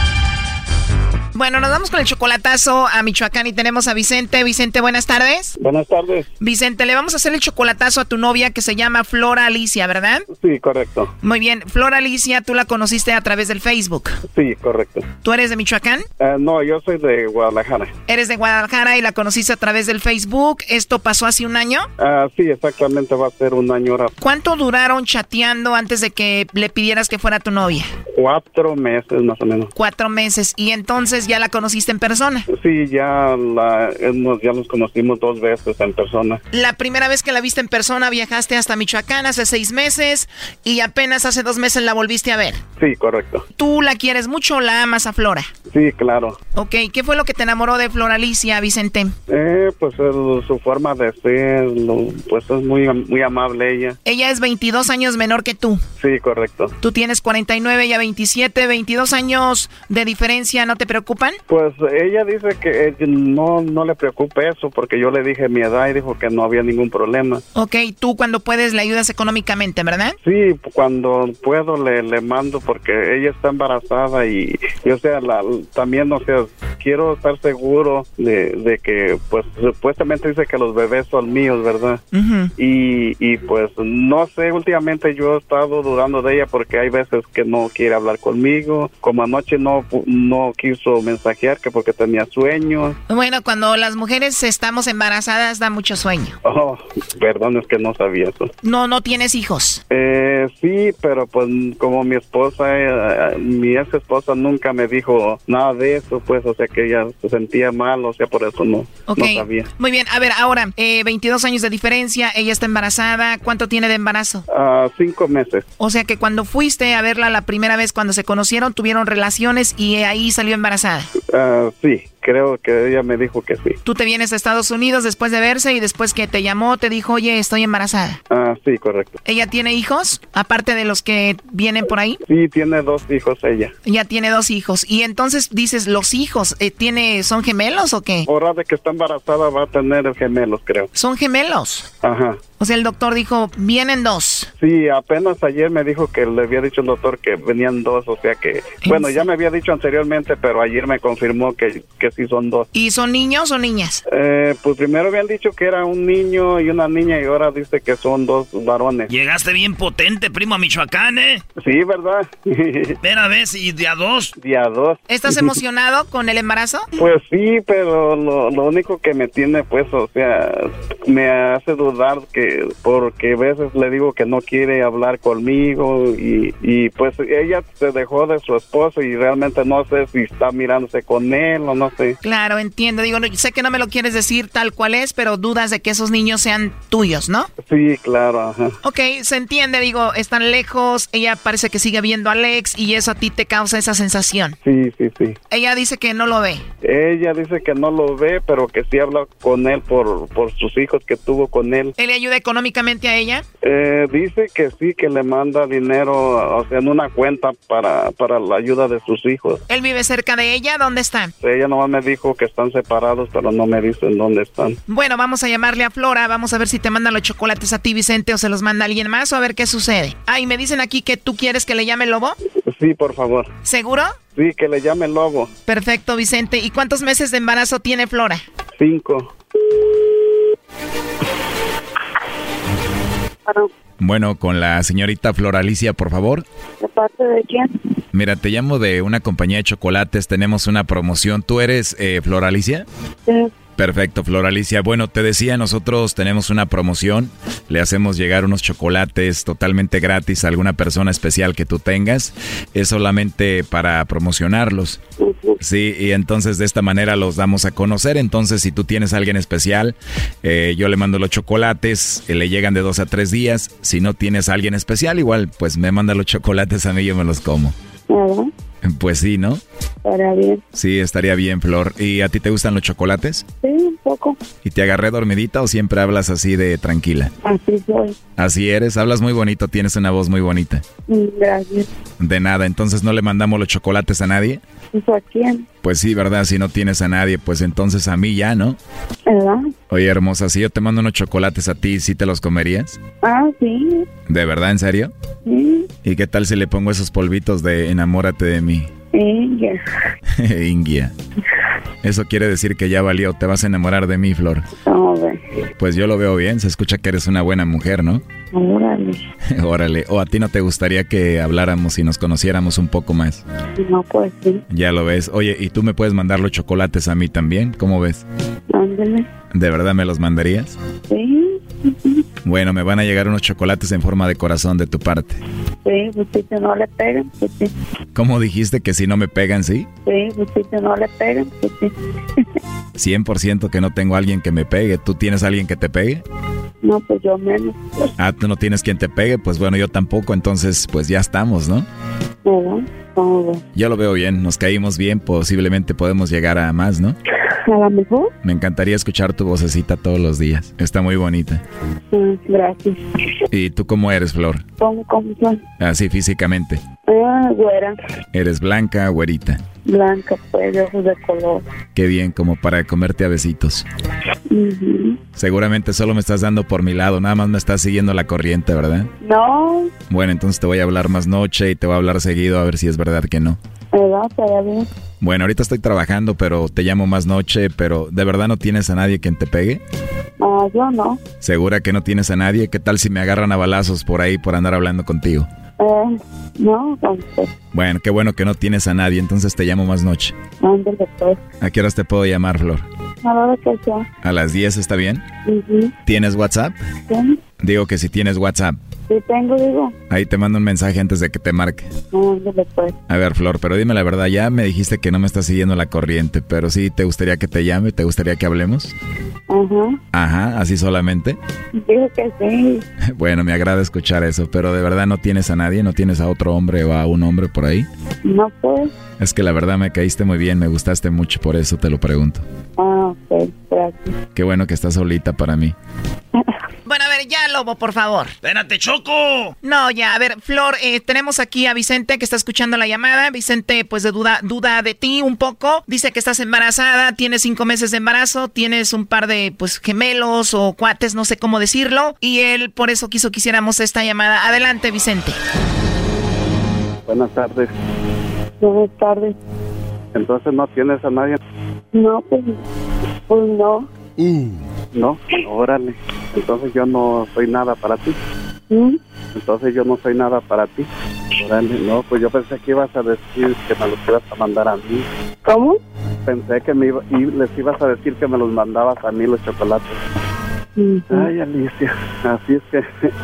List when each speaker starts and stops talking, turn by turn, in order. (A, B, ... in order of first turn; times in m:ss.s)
0:01.3-0:05.5 A
0:05.6-0:06.3 B
0:06.4-0:10.3 A
0:10.3-0:11.1 B
0:11.2-0:14.2 A
0:14.3-0:15.1 B
0:15.2-0:16.0 A
0:16.2-0:17.9 B
0:18.1-0:21.9 A
0:22.0-0:24.1 B
0:24.2-0:27.9 A
0:28.1-0:29.7 B
0:29.7-0:32.4 A
0:32.5-0:36.4 B
0:36.5-0:42.6 A
0:42.8-0:43.4 B
0:43.6-0:45.5 A
0:45.6-0:46.4 B
0:46.5-0:49.2 A
0:49.3-0:54.0 B
0:54.0-0:55.8 A
0:56.0-0:56.8 B
0:56.8-1:01.4 A
1:01.5-1:07.4 B
1:07.5-1:10.2 A
1:10.2-1:22.0 B
1:22.1-1:22.5 A
1:22.6-1:33.0 B
1:33.1-1:36.3 A
1:36.4-1:38.5 B
1:38.6-1:39.8 A
1:39.9-1:49.7 B
1:49.0-1:54.4 A
1:54.5-1:55.7 B
1:55.8-2:01.1 A
2:01.2-2:03.8 B
2:03.8-2:08.2 A
2:08.3-2:09.2 B
2:09.2-2:12.2 A
2:12.3-2:13.7 B
2:13.8-2:18.3 A
2:18.3-2:20.9 B
2:20.9-2:21.9 A
2:22.0-2:22.4 B
2:22.6-2:24.5 A
2:24.6-2:32.7 B
2:32.7-2:34.0 A
2:34.1-2:39.1 B
2:39.1-2:41.4 C
2:41.6-2:43.0 B
2:43.0-2:44.3 C
2:44.4-2:45.5 B
2:45.1-2:46.9 A
2:47.0-3:02.2 B
3:02.2-3:07.5 A
3:07.6-3:08.7 B
3:08.8-3:14.6 A
3:14.6-3:15.4 B
3:15.5-3:16.6 A
3:16.8-3:21.9 B
3:22.0-3:23.4 A
3:23.6-3:29.6 B
3:29.7-3:31.3 A
3:31.4-3:34.8 B
3:34.9-3:42.4 A
3:42.7-3:43.5 B
3:43.6-3:44.2 A
3:44.3-3:45.5 B
3:45.7-3:48.4 A
3:48.8-3:49.3 B
3:54.0-3:56.4 D
3:56.8-3:57.8 E
3:58.1-4:02.8 D
4:03.8-4:15.0 D
4:15.2-4:15.6 E
4:15.6-4:27.7 D
4:28.1-4:28.5 E
4:28.8-4:29.6 D
4:30.0-4:30.6 E
4:30.7-4:33.5 D
4:33.6-4:34.5 E
4:34.6-4:37.3 D
4:37.4-4:38.2 E
4:38.4-4:40.8 D
4:41.1-4:41.9 E
4:42.2-4:44.6 D
4:44.9-4:45.7 E
4:45.8-4:48.8 D
4:49.3-4:49.7 E
4:49.9-4:53.0 D
4:53.2-4:54.1 E
4:54.3-4:55.1 D
4:55.4-4:55.9 E
4:56.0-4:58.9 D
4:59.1-4:59.8 E
5:00.4-5:01.1 D
5:02.0-5:04.6 D
5:04.8-5:05.4 E
5:05.8-5:08.2 D
5:08.5-5:09.2 E
5:09.6-5:13.4 D
5:13.8-5:14.6 E
5:14.7-5:18.2 D
5:18.7-5:19.3 E
5:19.5-5:20.7 D
5:21.1-5:22.2 E
5:22.4-5:25.4 D
5:25.8-5:27.7 E
5:28.1-5:29.9 D
5:30.0-5:31.9 E
5:32.9-5:36.2 D
5:36.8-5:38.1 E
5:38.2-5:41.8 D
5:42.4-5:43.6 E
5:43.7-5:47.2 D
5:47.7-5:48.3 E
5:48.4-5:51.6 D
5:52.1-5:53.0 E
5:53.5-5:54.6 D
5:54.8-5:55.6 E
5:55.8-5:56.8 D
5:57.1-5:58.0 E
5:58.3-5:59.6 D
5:59.8-6:01.6 E
6:01.9-6:03.8 D
6:04.5-6:05.2 E
6:05.3-6:09.1 D
6:09.2-6:10.0 E
6:10.1-6:13.6 D
6:13.9-6:14.9 E
6:15.2-6:19.8 D
6:20.4-6:21.3 E
6:21.4-6:25.5 D
6:25.8-6:27.6 E
6:27.7-6:30.4 D
6:30.5-6:31.4 E
6:31.6-6:32.8 D
6:33.2-6:34.1 E
6:34.2-6:35.2 D
6:35.5-6:35.9 E
6:36.0-6:36.8 D
6:37.1-6:37.4 E
6:37.6-6:38.8 D
6:39.1-6:39.9 E
6:40.1-6:41.9 D
6:42.1-6:43.0 E
6:43.1-6:48.9 D
6:49.5-6:50.0 E
6:50.1-6:51.4 D
6:51.8-6:52.8 E
6:53.1-6:57.9 D
6:58.2-6:58.9 E
6:59.2-7:02.4 D
7:02.8-7:04.1 E
7:04.3-7:05.7 D
7:06.8-7:08.3 A
7:08.4-7:09.5 C
7:09.6-7:25.4 A
7:27.1-7:27.7 B
7:28.6-7:29.4 E
7:30.1-7:31.4 B
7:31.9-7:32.6 E
7:33.3-7:33.9 E
7:34.9-7:38.2 B
7:38.7-7:39.0 E
7:39.3-7:40.9 B
7:41.4-7:45.0 B
7:45.4-7:45.8 E
7:46.2-7:50.0 B
7:50.8-7:51.3 E
7:51.1-7:53.1 B